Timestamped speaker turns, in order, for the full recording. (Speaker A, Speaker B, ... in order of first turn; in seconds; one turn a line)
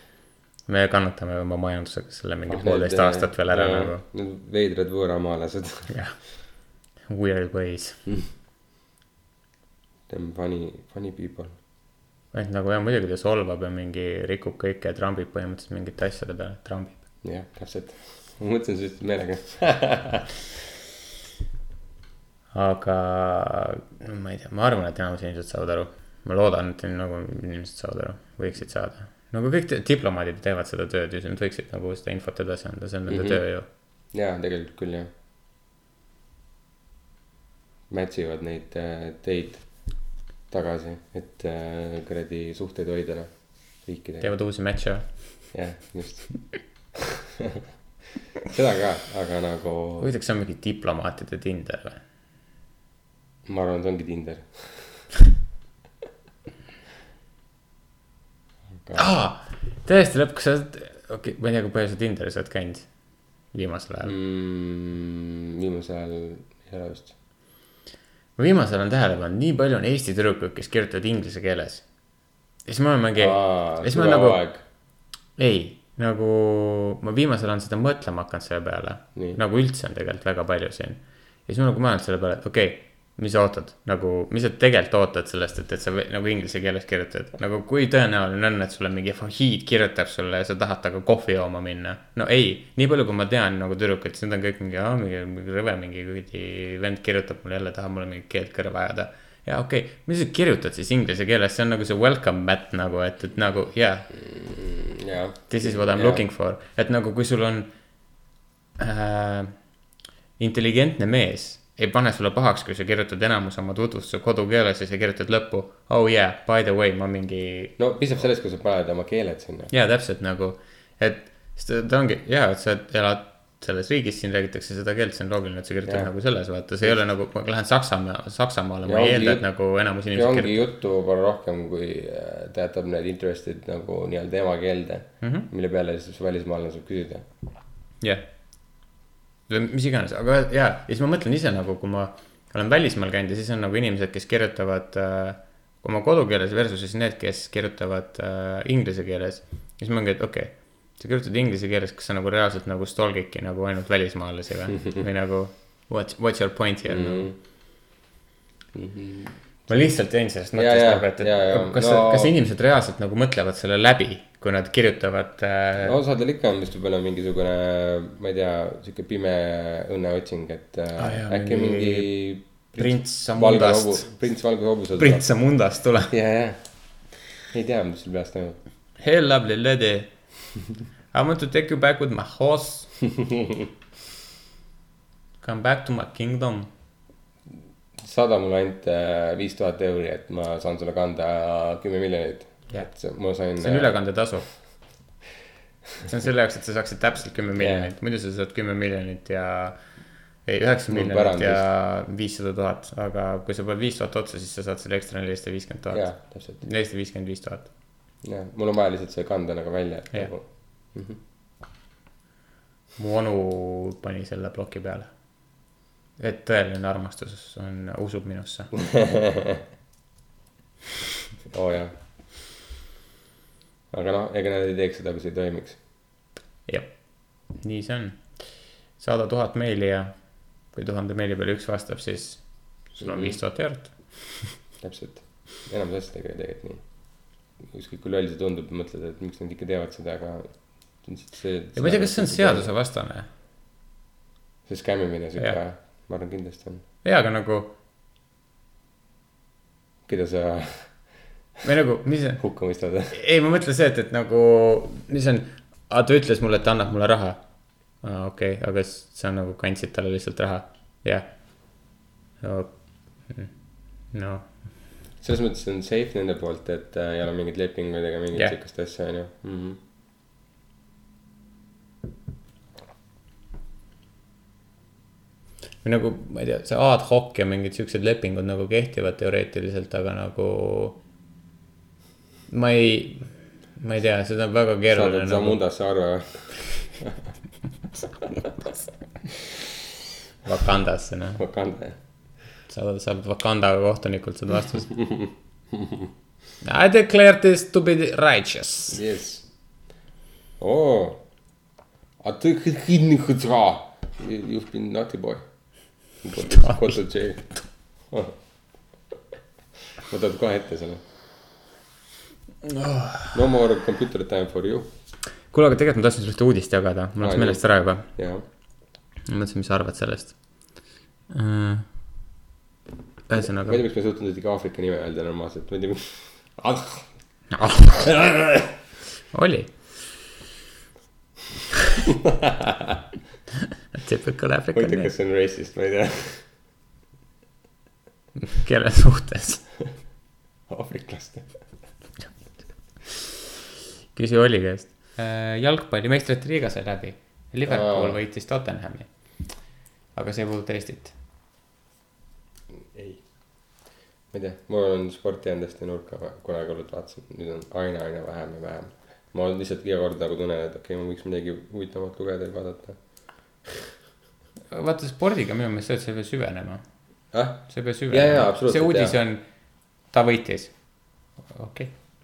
Speaker A: 0.7-4.0
Speaker B: 2.5-5.9
Speaker A: 5.9-6.2
Speaker A: 7.1-8.0
Speaker B: 10.1-11.5
Speaker A: 12.3-17.0
Speaker B: 17.2-20.3
Speaker A: 22.5-33.7
Speaker B: 33.1-33.4
Speaker B: 34.1-35.1
Speaker B: 37.9-39.7
Speaker B: 40.5-44.3
Speaker A: 44.2-45.1
Speaker B: 45.5-46.4
Speaker B: 48.5-50.1
Speaker A: 50.0-52.0
Speaker B: 53.5-55.0
Speaker B: 58.8-59.1
Speaker A: 59.0-62.9
Speaker A: 63.5-64.1
Speaker B: 64.0-67.1
Speaker A: 68.4-71.8
Speaker A: 72.7-74.4
Speaker B: 73.2-74.6
Speaker A: 75.4-104.1
Speaker B: 104.1-106.2
Speaker A: 105.5-107.7
Speaker A: 108.8-109.5
Speaker A: 110.4-117.8
Speaker B: 117.8-119.7
Speaker A: 119.7-130.6
Speaker B: 125.8-126.1
Speaker B: 128.8-129.5
Speaker B: 130.1-137.3
Speaker A: 135.2-135.5
Speaker A: 139.5-157.3
Speaker B: 156.9-157.4
Speaker B: 158.8-159.4
Speaker A: 159.7-166.0
Speaker B: 160.6-162.3
Speaker B: 165.8-175.3
Speaker A: 171.0-172.2
Speaker A: 172.8-174.1
Speaker A: 175.0-176.1
Speaker B: 176.1-176.6
Speaker B: 177.5-178.6
Speaker A: 179.0-180.1
Speaker A: 181.1-182.9
Speaker A: 185.4-186.7
Speaker B: 188.0-194.0
Speaker A: 193.6-194.5
Speaker A: 196.1-199.8
Speaker B: 197.6-197.9
Speaker A: 200.4-207.7
Speaker B: 200.9-201.7
Speaker B: 205.9-206.6
Speaker B: 208.2-211.2
Speaker A: 213.0-215.1
Speaker A: 216.2-218.7
Speaker B: 218.8-219.6
Speaker B: 221.5-221.9
Speaker B: 223.9-225.8
Speaker A: 226.7-226.9
Speaker A: 227.5-228.3
Speaker A: 229.0-230.1
Speaker A: 230.7-234.5
Speaker B: 233.0-233.4
Speaker B: 234.8-236.9
Speaker B: 237.6-242.7
Speaker A: 241.8-243.3
Speaker B: 244.7-246.8
Speaker A: 247.0-247.7
Speaker B: 250.1-251.0
Speaker A: 251.6-252.4
Speaker B: 252.4-253.2
Speaker A: 253.1-257.4
Speaker A: 258.0-261.3
Speaker A: 262.4-262.8
Speaker A: 263.3-263.5
Speaker A: 264.1-264.5
Speaker B: 265.2-269.8
Speaker A: 275.8-281.0
Speaker A: 282.5-285.6
Speaker B: 284.9-287.1
Speaker A: 290.4-291.4
Speaker B: 291.4-292.0
Speaker A: 292.7-294.9
Speaker B: 294.9-296.1
Speaker A: 296.6-299.0
Speaker B: 298.9-299.5
Speaker B: 300.6-301.2
Speaker B: 302.2-305.4
Speaker B: 306.2-307.6
Speaker A: 306.4-307.0
Speaker B: 308.1-308.4
Speaker B: 310.1-311.0
Speaker A: 312.6-313.4
Speaker B: 313.3-314.9
Speaker A: 315.5-318.1
Speaker B: 317.2-318.4
Speaker A: 319.3-320.6
Speaker A: 321.3-321.9
Speaker A: 323.3-323.8
Speaker B: 323.4-327.1
Speaker A: 327.5-328.1
Speaker B: 328.2-328.6
Speaker A: 329.3-329.7
Speaker B: 332.2-333.0
Speaker A: 333.9-335.1
Speaker B: 334.7-336.4
Speaker A: 338.4-339.7
Speaker B: 340.7-341.7
Speaker A: 344.1-349.1
Speaker B: 347.7-348.2
Speaker A: 350.1-351.1
Speaker B: 352.8-353.2
Speaker B: 354.3-363.0
Speaker A: 364.7-366.8
Speaker B: 367.3-369.2
Speaker A: 367.7-369.4
Speaker A: 370.1-371.9